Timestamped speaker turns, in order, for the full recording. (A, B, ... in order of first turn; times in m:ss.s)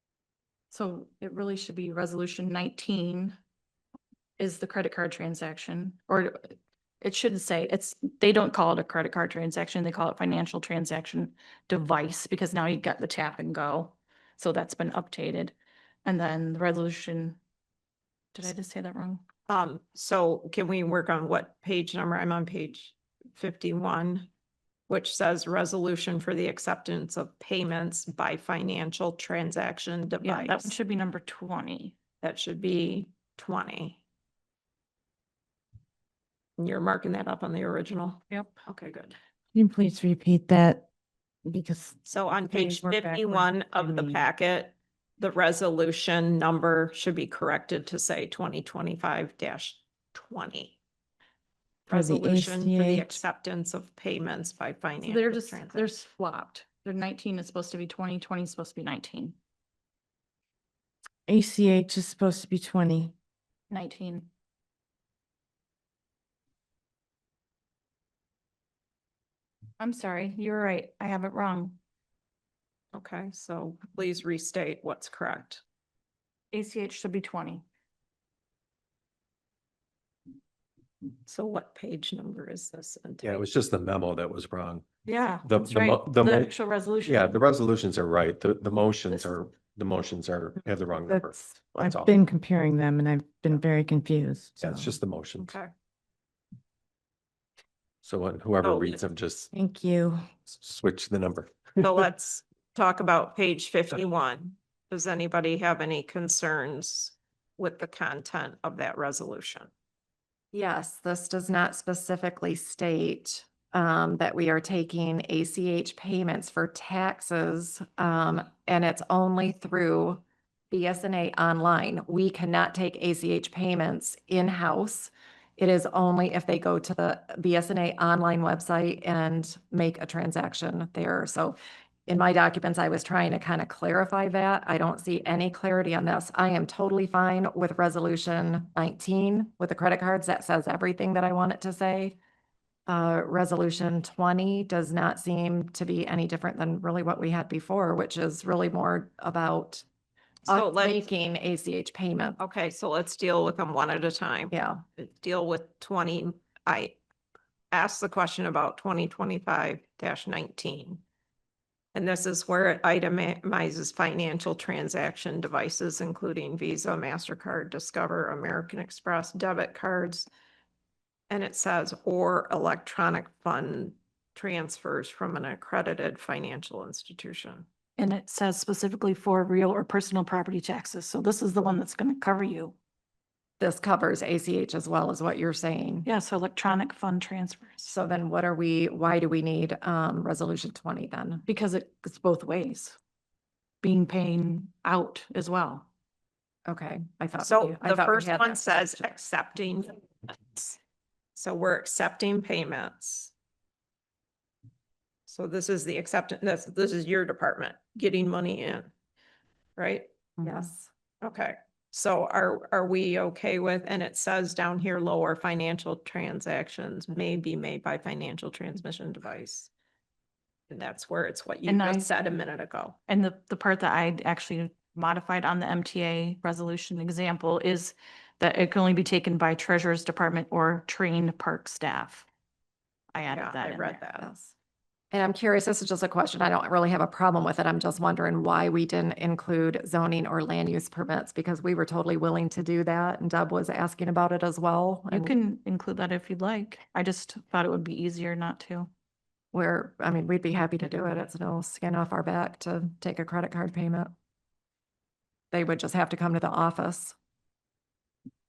0:00.7-0:03.4 A
0:04.4-0:06.4 A
0:07.0-0:15.5 A
0:16.0-0:17.4 A
0:18.3-0:19.2 A
0:19.5-0:24.3 B
0:24.9-0:30.7 B
0:30.2-0:32.0 A
0:32.2-0:34.0 B
0:36.6-0:39.1 B
0:38.3-0:38.6 A
0:39.5-0:40.9 C
0:41.4-0:44.2 C
0:42.0-0:50.8 B
0:51.9-0:53.2 C
0:51.9-0:55.8 B
0:55.0-0:59.4 A
1:01.3-1:03.1 C
1:03.7-1:04.3 A
1:09.8-1:11.8 A
1:12.9-1:15.6 B
1:16.5-1:17.6 A
1:21.2-1:23.4 B
1:23.2-1:24.8 D
1:25.0-1:27.3 A
1:25.4-1:32.2 D
1:31.1-1:34.9 C
1:34.6-1:35.6 D
1:35.4-1:35.7 B
1:38.0-1:39.5 D
1:38.6-1:39.0 B
1:39.5-1:40.3 C
1:40.4-1:42.0 D
1:41.8-1:49.7 B
1:50.5-2:11.6 E
2:12.1-2:22.2 E
2:22.9-2:29.8 E
2:30.5-2:31.1 B
2:30.5-2:32.4 E
2:32.4-2:37.0 B
2:34.5-2:34.8 E
2:37.7-2:41.0 B
2:41.9-2:50.3 B
2:51.3-2:57.7 B
2:58.0-3:02.7 A
3:03.6-3:06.1 E
3:06.0-3:07.9 A
3:07.8-3:11.4 E
3:11.4-3:13.0 A
3:13.8-3:15.9 A
3:16.6-3:18.8 E
3:17.4-3:20.8 B
3:21.4-3:23.3 B
3:25.3-3:28.9 B
3:29.8-3:30.1 B
3:30.4-3:30.9 E
3:31.2-3:39.7 B
3:40.7-3:43.0 B
3:41.7-3:42.1 A
3:43.1-3:52.3 A
3:53.1-3:54.0 A
3:53.3-3:54.2 B
3:54.2-3:54.5 E
3:55.1-4:05.3 E
4:05.1-4:08.9 A
4:09.5-4:14.1 E
4:15.5-4:17.1 E